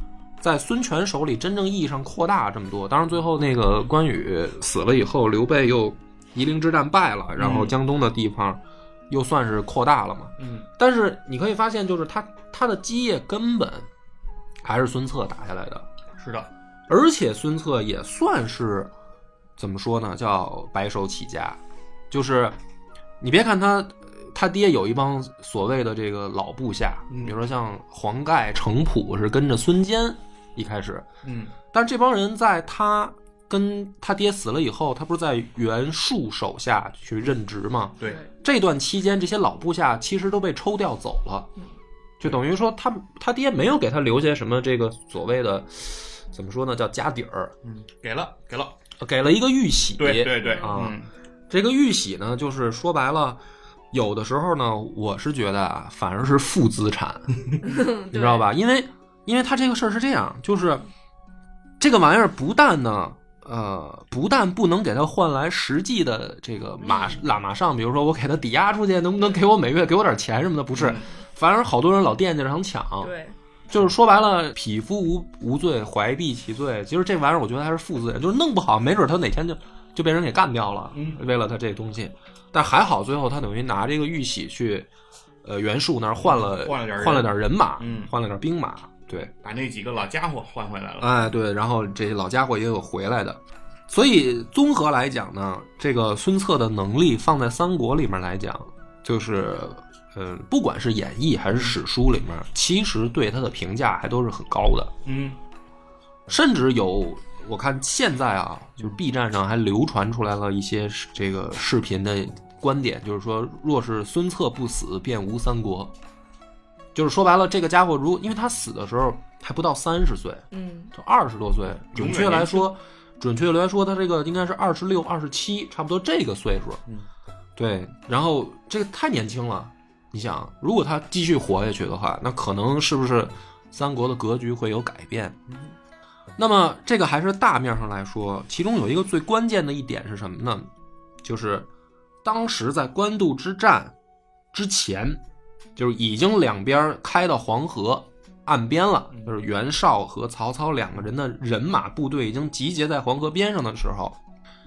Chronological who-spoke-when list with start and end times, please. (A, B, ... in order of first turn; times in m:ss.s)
0:00.4-0:13.9 A
0:07.4-0:07.8 B
0:10.4-0:10.7 B
0:14.6-0:15.9 A
0:16.2-0:16.5 B
0:16.9-0:18.9 A
0:19.6-0:21.6 A
0:22.1-0:22.6 A
0:23.2-0:31.1 A
0:27.1-0:27.4 B
0:31.2-0:31.6 B
0:31.7-0:41.5 A
0:42.2-0:47.5 A
0:47.6-0:48.8 B
0:49.0-0:51.0 A
0:50.0-0:51.1 B
0:50.4-0:50.7 C
0:51.5-1:00.8 A
0:57.6-0:58.5 C
1:01.8-1:13.1 A
1:06.8-1:07.2 C
1:10.7-1:11.1 B
1:13.0-1:13.4 C
1:13.7-1:24.9 A
1:20.9-1:21.2 B
1:25.4-1:29.3 A
1:26.2-1:28.1 B
1:29.2-1:31.2 B
1:31.0-1:44.9 A
1:41.5-1:41.8 B
1:45.1-1:45.4 B
1:46.3-1:55.9 A
1:57.0-2:06.8 A
2:00.5-2:00.9 C
2:01.9-2:02.7 B
2:07.6-2:15.4 A
2:15.5-2:15.8 B
2:16.4-2:20.7 A
2:21.2-2:21.7 A
2:22.2-2:24.0 A
2:24.5-2:25.2 A
2:25.8-2:34.2 A
2:29.1-2:29.4 B